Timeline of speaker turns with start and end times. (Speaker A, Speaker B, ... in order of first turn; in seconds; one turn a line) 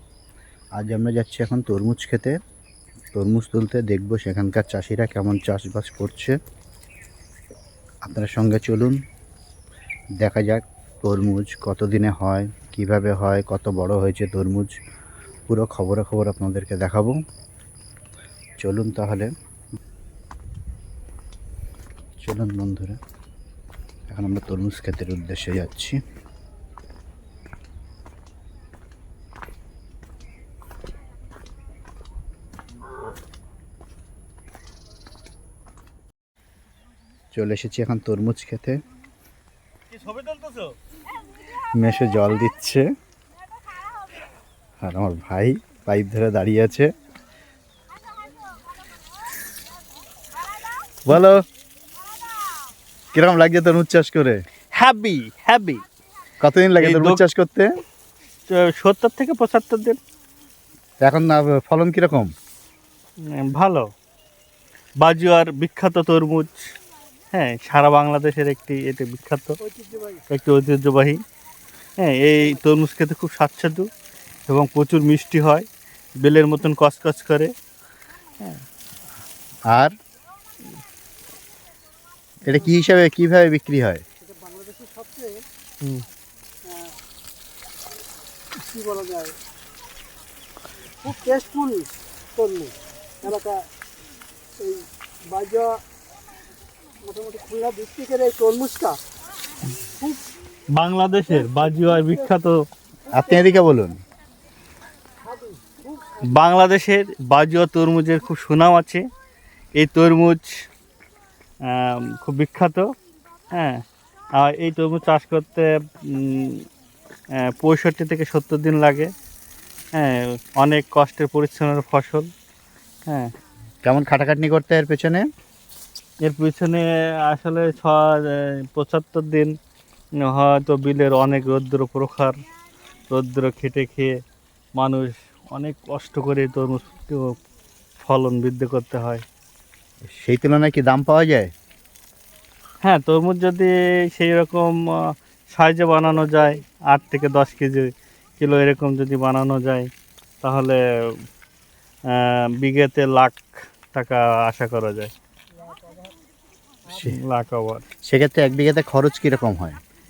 Speaker A: 0.8-2.4
Speaker A: 3.1-6.4
Speaker A: 8.1-9.0
Speaker A: 10.2-14.8
Speaker A: 15.5-17.2
Speaker A: 18.6-19.3
Speaker A: 22.2-23.0
Speaker A: 24.1-26.0
Speaker A: 37.3-38.8
Speaker B: 39.9-40.8
Speaker A: 41.8-42.9
Speaker A: 44.8-46.9
Speaker A: 51.1-51.4
Speaker A: 53.1-54.4
Speaker B: 54.7-55.8
Speaker A: 56.4-57.7
Speaker B: 56.8-57.2
Speaker B: 58.5-60.0
Speaker A: 61.0-62.3
Speaker B: 63.2-63.9
Speaker B: 65.0-66.6
Speaker B: 67.3-69.6
Speaker C: 69.7-70.2
Speaker B: 70.3-71.2
Speaker B: 72.0-73.9
Speaker B: 74.5-75.7
Speaker B: 76.2-77.5
Speaker A: 79.7-79.9
Speaker A: 82.4-84.0
Speaker C: 84.2-85.4
Speaker C: 86.7-86.9
Speaker C: 88.6-89.4
Speaker C: 91.0-93.7
Speaker C: 94.6-95.8
Speaker C: 97.0-99.0
Speaker B: 100.7-102.6
Speaker A: 103.1-104.0
Speaker C: 105.3-106.2
Speaker B: 106.2-109.0
Speaker B: 109.8-110.5
Speaker B: 111.7-112.9
Speaker B: 113.5-113.8
Speaker B: 114.4-116.7
Speaker B: 117.4-119.1
Speaker B: 119.9-122.3
Speaker A: 123.8-125.3
Speaker B: 126.2-129.6
Speaker B: 130.2-132.4
Speaker B: 133.1-134.2
Speaker B: 134.8-137.3
Speaker B: 138.0-139.2
Speaker A: 140.1-141.5
Speaker B: 142.8-149.9
Speaker B: 150.4-151.1
Speaker B: 152.1-155.1
Speaker A: 156.9-157.2
Speaker B: 157.0-157.9
Speaker A: 158.1-159.8